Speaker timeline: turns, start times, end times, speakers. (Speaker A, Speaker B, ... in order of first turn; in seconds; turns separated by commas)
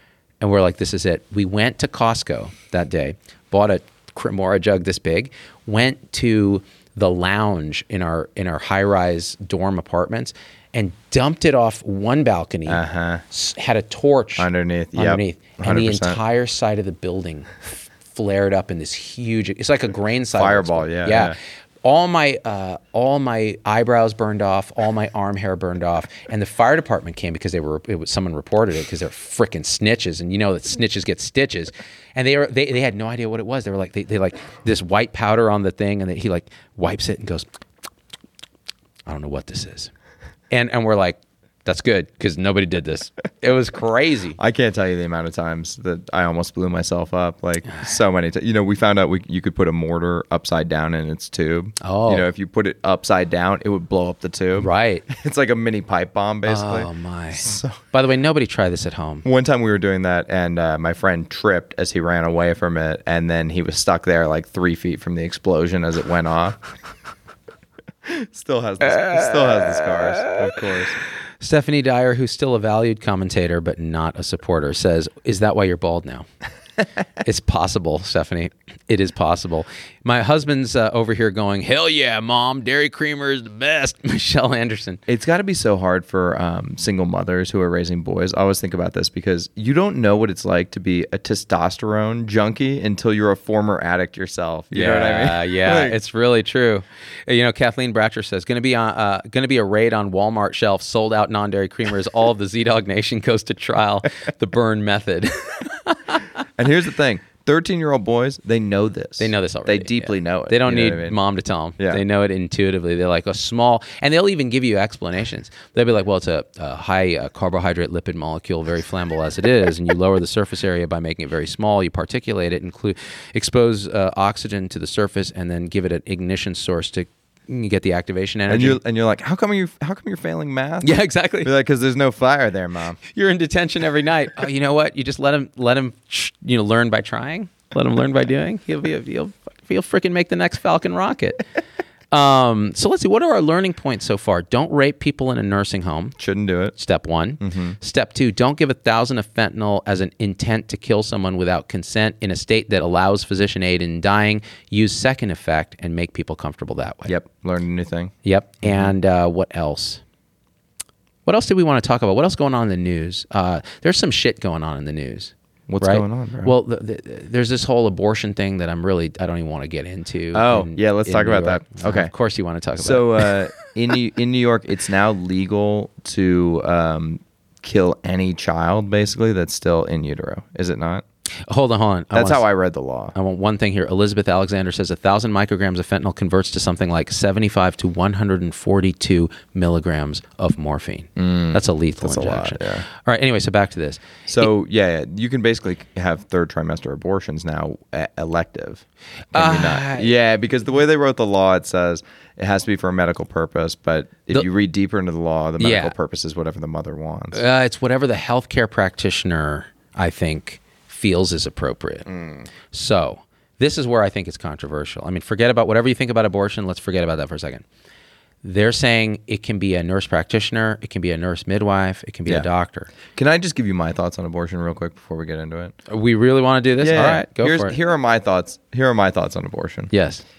Speaker A: 0.4-37.5, Speaker B: 12.7-13.2, Speaker B: 14.4-16.2, Speaker B: 20.4-21.4, Speaker A: 39.0-39.9, Speaker A: 40.5-44.4, Speaker B: 44.4-57.8, Speaker A: 51.8-52.3, Speaker A: 54.6-55.1, Speaker A: 56.5-59.2, Speaker B: 59.2-66.6, Speaker B: 68.0-71.0, Speaker A: 71.4-76.3, Speaker A: 77.2-85.0, Speaker B: 85.1-96.0, Speaker A: 94.7-106.2, Speaker B: 106.6-111.2, Speaker A: 109.2-128.8, Speaker B: 128.5-133.0, Speaker A: 130.8-131.5, Speaker A: 133.1-141.4, Speaker A: 142.1-146.2, Speaker B: 146.2-146.8, Speaker A: 146.8-157.1, Speaker B: 147.4-147.8, Speaker B: 157.1-158.9, Speaker A: 158.2-160.0, Speaker A: 161.2-173.4, Speaker B: 165.7-166.5, Speaker B: 170.3-172.1, Speaker B: 172.8-181.0, Speaker A: 181.5-182.4, Speaker B: 182.1-183.1, Speaker A: 183.1-194.2, Speaker B: 191.2-192.8, Speaker B: 194.3-207.4, Speaker A: 199.3-200.1, Speaker A: 205.6-205.9, Speaker A: 207.3-212.1, Speaker B: 212.1-212.5, Speaker A: 212.7-217.6, Speaker A: 218.4-222.9, Speaker B: 223.1-225.8, Speaker A: 225.9-227.7, Speaker B: 226.8-229.9, Speaker A: 229.9-230.2